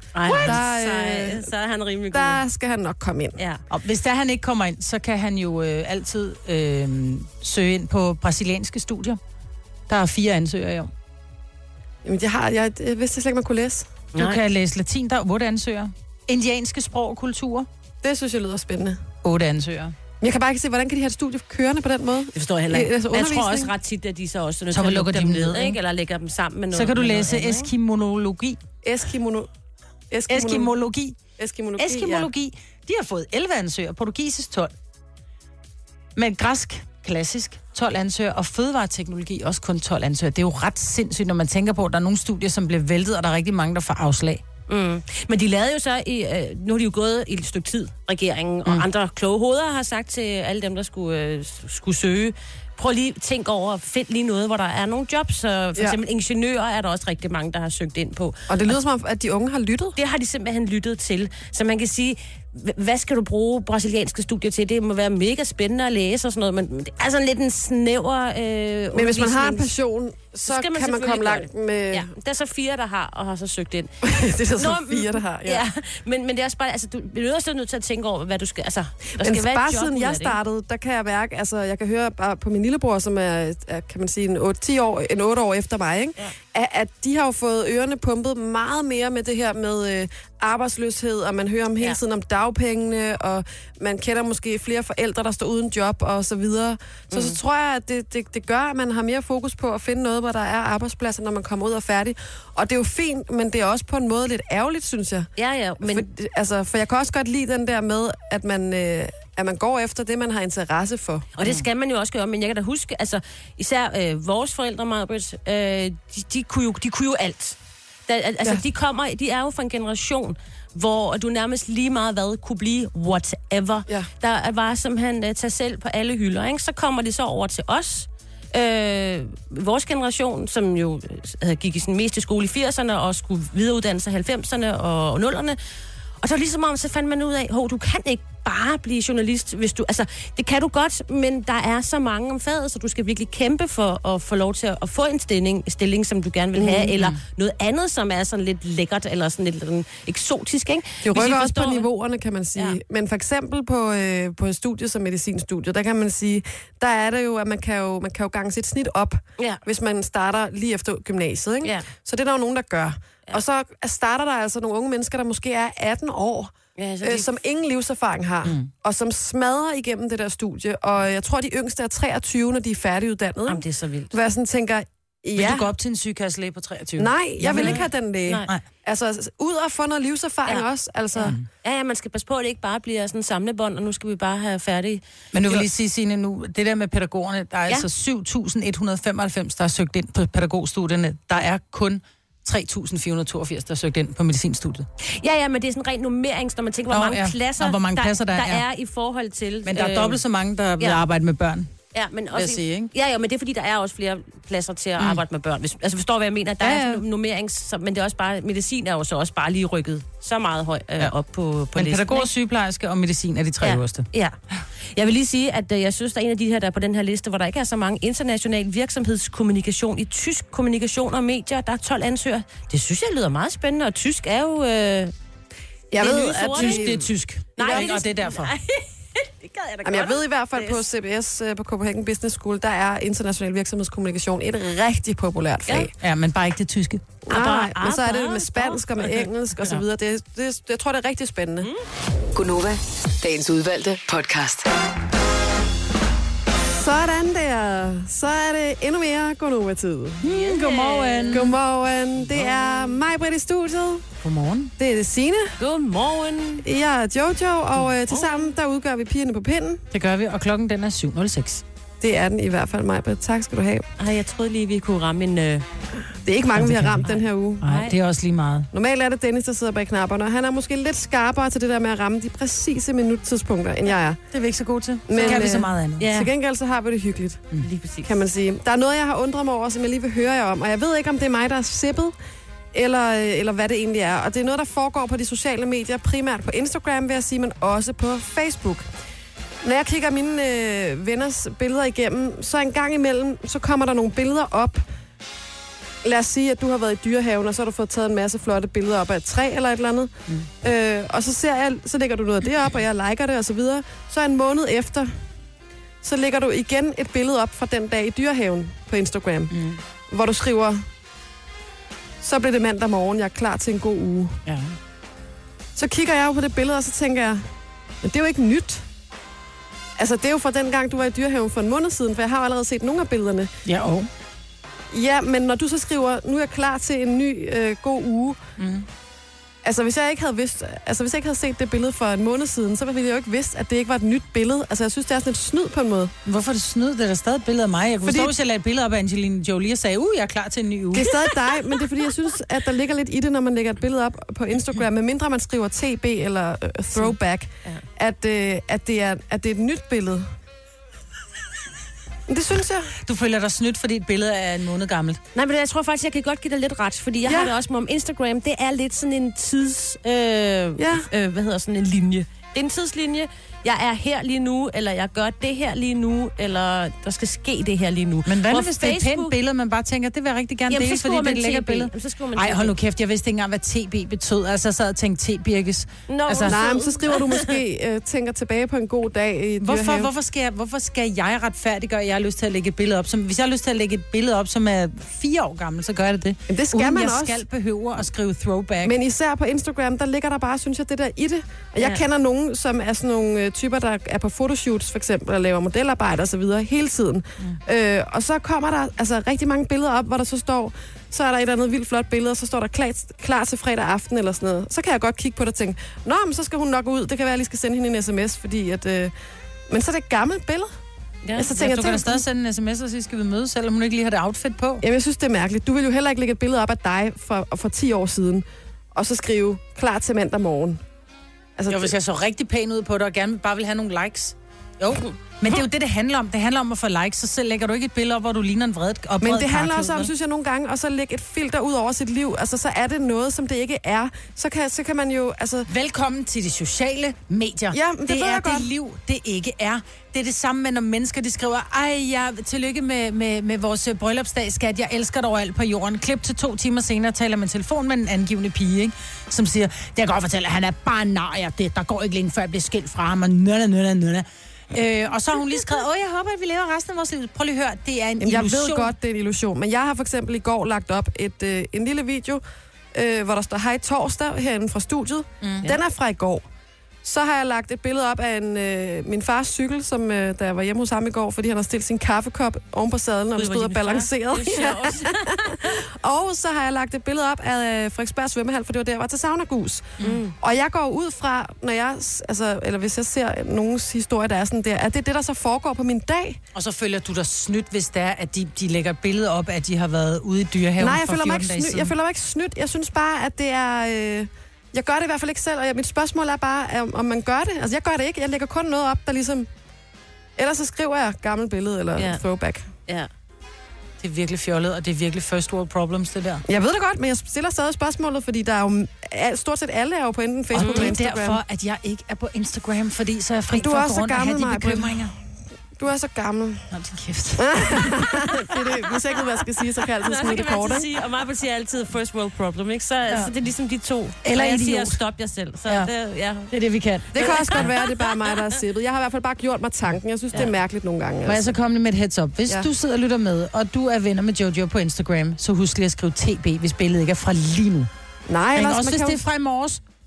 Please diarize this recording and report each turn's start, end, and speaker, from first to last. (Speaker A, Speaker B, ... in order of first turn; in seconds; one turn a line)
Speaker A: 0.2-2.4
Speaker B: 0.2-0.6
Speaker C: 0.3-1.5
Speaker C: 2.1-3.4
Speaker B: 3.7-9.2
Speaker B: 9.9-10.9
Speaker C: 12.0-13.9
Speaker A: 14.1-14.4
Speaker B: 14.2-17.7
Speaker C: 18.0-19.0
Speaker B: 19.2-19.9
Speaker C: 20.2-23.7
Speaker A: 22.3-27.7
Speaker B: 24.7-25.8
Speaker B: 26.7-28.6
Speaker C: 28.8-29.5
Speaker C: 30.1-30.7
Speaker B: 30.3-31.2
Speaker C: 31.4-32.3
Speaker B: 31.8-34.7
Speaker B: 36.1-44.4
Speaker A: 44.7-58.5
Speaker C: 58.5-60.0
Speaker A: 60.0-69.7
Speaker C: 68.9-72.1
Speaker A: 70.4-80.4
Speaker C: 74.0-75.6
Speaker C: 79.2-111.3
Speaker A: 97.1-97.4
Speaker A: 105.3-106.0
Speaker A: 111.3-117.5
Speaker A: 118.1-135.6
Speaker A: 136.2-151.9
Speaker C: 146.6-146.9
Speaker C: 151.0-175.7
Speaker A: 166.8-167.3
Speaker A: 173.5-174.2
Speaker B: 175.3-177.8
Speaker C: 177.0-181.3
Speaker A: 177.6-178.5
Speaker B: 181.2-181.4
Speaker A: 181.3-185.0
Speaker B: 185.3-194.9
Speaker A: 195.0-200.2
Speaker B: 196.9-198.6
Speaker B: 199.6-201.7
Speaker A: 201.9-212.3
Speaker B: 202.3-202.9
Speaker B: 206.6-207.0
Speaker B: 211.7-214.1
Speaker A: 213.6-225.1
Speaker C: 225.9-227.1
Speaker A: 225.9-226.9
Speaker B: 226.4-228.5
Speaker A: 227.6-230.8
Speaker C: 227.6-227.9
Speaker C: 229.8-235.9
Speaker B: 236.0-237.0
Speaker C: 237.3-241.7
Speaker A: 237.3-239.2
Speaker D: 242.3-244.7
Speaker C: 246.7-250.2
Speaker B: 250.2-251.5
Speaker A: 250.2-251.5
Speaker C: 251.3-254.1
Speaker B: 254.2-254.7
Speaker C: 254.8-255.5
Speaker A: 255.6-256.6
Speaker C: 256.6-259.8
Speaker A: 258.1-258.5
Speaker B: 259.9-261.6
Speaker C: 262.0-263.9
Speaker A: 264.0-265.6
Speaker C: 266.2-267.7
Speaker B: 266.6-267.1
Speaker A: 267.1-267.9
Speaker B: 267.6-268.7
Speaker C: 268.7-274.2
Speaker B: 274.3-276.1
Speaker C: 275.1-277.5
Speaker A: 275.1-275.4
Speaker A: 276.0-276.3
Speaker A: 277.6-278.1
Speaker C: 278.0-282.1
Speaker C: 282.7-288.9
Speaker C: 289.6-294.8
Speaker C: 296.0-305.1
Speaker C: 306.0-309.5
Speaker B: 309.5-309.8
Speaker C: 310.1-310.8
Speaker C: 312.2-314.4
Speaker B: 314.4-314.7
Speaker C: 315.8-317.4
Speaker C: 318.0-318.8
Speaker C: 320.0-323.5
Speaker B: 323.6-324.1
Speaker C: 324.9-328.4
Speaker B: 328.6-328.9
Speaker C: 329.6-336.1
Speaker B: 336.2-341.2
Speaker C: 338.0-338.3
Speaker C: 340.9-350.3
Speaker C: 352.3-352.9
Speaker B: 353.0-355.2
Speaker A: 355.3-369.4
Speaker C: 357.2-357.5
Speaker C: 360.8-361.1
Speaker B: 368.2-376.6
Speaker A: 370.7-372.8
Speaker A: 376.1-377.5
Speaker C: 376.4-380.1
Speaker B: 379.6-388.9
Speaker C: 386.5-387.4
Speaker C: 388.8-409.1
Speaker C: 409.7-410.7
Speaker A: 411.2-411.5
Speaker C: 411.4-412.2
Speaker B: 411.5-414.8
Speaker C: 414.8-420.8
Speaker C: 421.6-421.9
Speaker B: 421.7-430.1
Speaker C: 429.2-435.7
Speaker B: 435.7-458.9
Speaker C: 437.7-438.7
Speaker C: 458.2-462.4
Speaker C: 462.9-466.4
Speaker B: 465.4-465.7
Speaker C: 467.0-486.4
Speaker A: 473.4-475.8
Speaker A: 480.0-480.3
Speaker B: 486.5-491.9
Speaker C: 490.8-499.5
Speaker C: 500.4-502.7
Speaker A: 502.0-502.2
Speaker B: 504.0-506.4
Speaker C: 506.5-511.4
Speaker B: 510.5-515.1
Speaker A: 510.6-510.9
Speaker C: 513.5-515.1
Speaker C: 515.8-516.7
Speaker B: 516.7-518.1
Speaker C: 517.4-520.9
Speaker A: 520.0-526.5
Speaker B: 524.2-525.0
Speaker B: 526.5-527.7
Speaker C: 527.1-531.5
Speaker A: 527.1-528.1
Speaker B: 531.2-537.9
Speaker C: 538.3-539.2
Speaker B: 538.5-539.8